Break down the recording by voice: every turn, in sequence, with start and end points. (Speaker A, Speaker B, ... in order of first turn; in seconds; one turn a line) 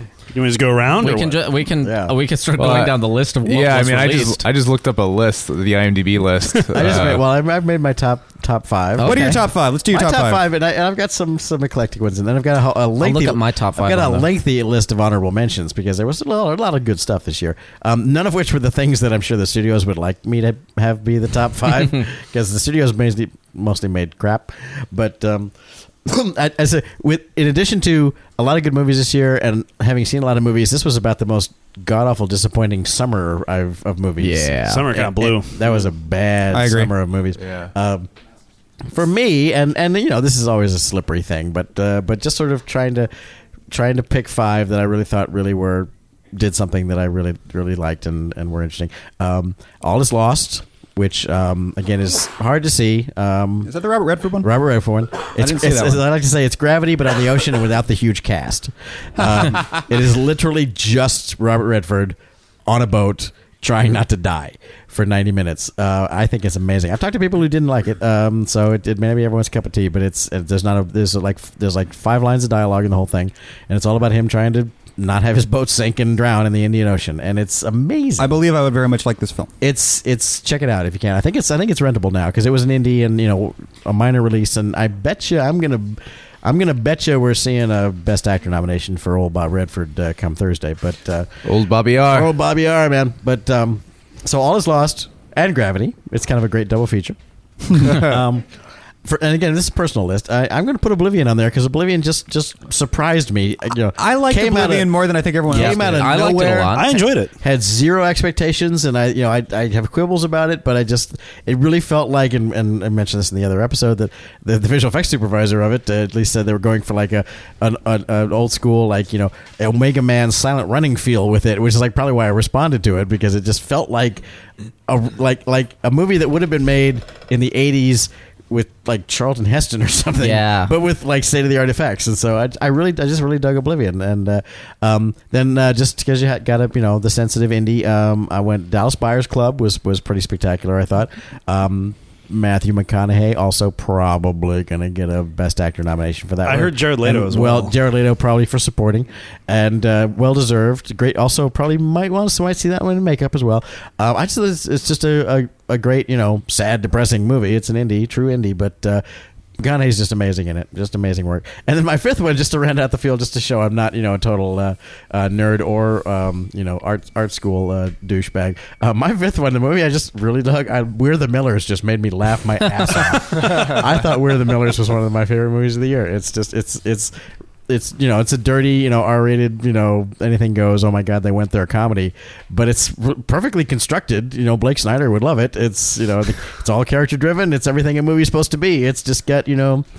Speaker A: 0.3-1.4
Speaker B: 0.9-4.5
Speaker C: 1.8-2.1
Speaker D: 2.6-7.2
Speaker C: 6.7-9.3
Speaker B: 9.0-9.5
Speaker E: 9.0-10.5
Speaker C: 9.9-25.5
Speaker B: 13.0-14.3
Speaker C: 26.1-38.1
Speaker B: 34.2-34.9
Speaker A: 34.7-35.8
Speaker E: 36.5-36.9
Speaker C: 38.9-43.1
Speaker C: 43.7-53.7
Speaker E: 53.6-54.5
Speaker C: 54.4-62.2
Speaker E: 55.4-56.0
Speaker C: 62.7-78.3
Speaker E: 78.2-79.5
Speaker C: 79.6-91.3
Speaker D: 91.5-92.3
Speaker C: 92.1-98.4
Speaker E: 97.7-98.3
Speaker C: 99.0-124.2
Speaker E: 104.0-106.1
Speaker B: 105.5-107.0
Speaker A: 106.7-107.3
Speaker C: 124.9-159.0
Speaker B: 130.2-130.7
Speaker A: 146.4-147.8
Speaker C: 159.6-177.1
Speaker C: 177.7-189.8